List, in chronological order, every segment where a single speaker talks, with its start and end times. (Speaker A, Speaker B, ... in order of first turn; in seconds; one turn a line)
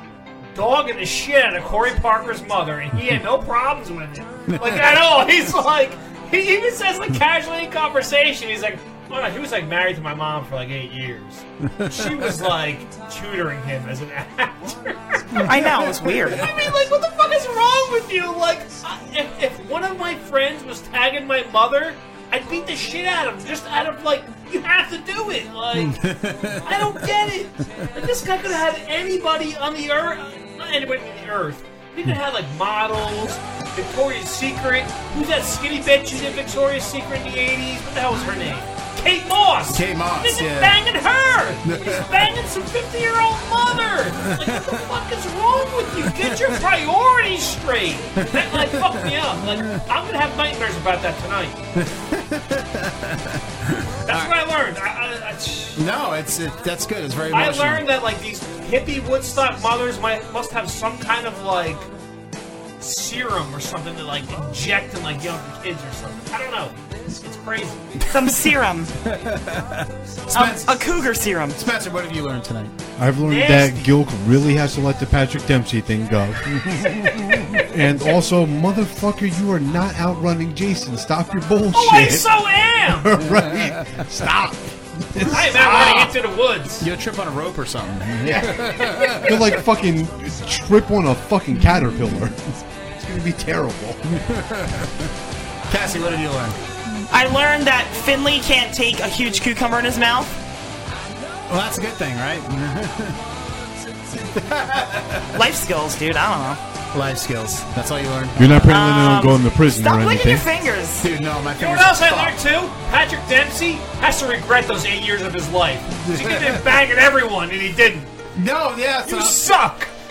Speaker A: 0.5-15.4
Speaker B: 11.7-12.0
Speaker B: 15.3-16.2
Speaker C: 15.4-16.5
Speaker A: 16.3-26.0
Speaker B: 25.8-27.0
Speaker A: 26.6-51.6
Speaker B: 39.7-40.8
Speaker B: 41.6-42.2
Speaker B: 44.3-44.7
Speaker B: 48.2-49.8
Speaker B: 51.8-54.3
Speaker A: 54.1-55.8
Speaker B: 55.8-57.9
Speaker A: 57.3-61.9
Speaker A: 62.8-67.9
Speaker C: 68.1-68.9
Speaker B: 69.0-70.9
Speaker C: 70.3-71.6
Speaker B: 71.5-72.7
Speaker D: 73.0-76.5
Speaker A: 73.2-73.9
Speaker D: 77.6-82.3
Speaker A: 81.7-83.2
Speaker D: 82.8-86.1
Speaker A: 85.3-86.8
Speaker B: 85.6-86.1
Speaker B: 86.8-89.4
Speaker D: 88.2-94.2
Speaker B: 94.2-95.1
Speaker B: 95.7-96.6
Speaker C: 97.1-100.3
Speaker B: 101.5-103.2
Speaker B: 104.1-105.3
Speaker C: 105.3-106.6
Speaker B: 106.9-108.7
Speaker D: 108.4-110.5
Speaker C: 108.7-111.1
Speaker B: 111.0-112.3
Speaker A: 111.6-118.1
Speaker B: 115.9-116.6
Speaker B: 118.3-119.4
Speaker A: 119.0-119.9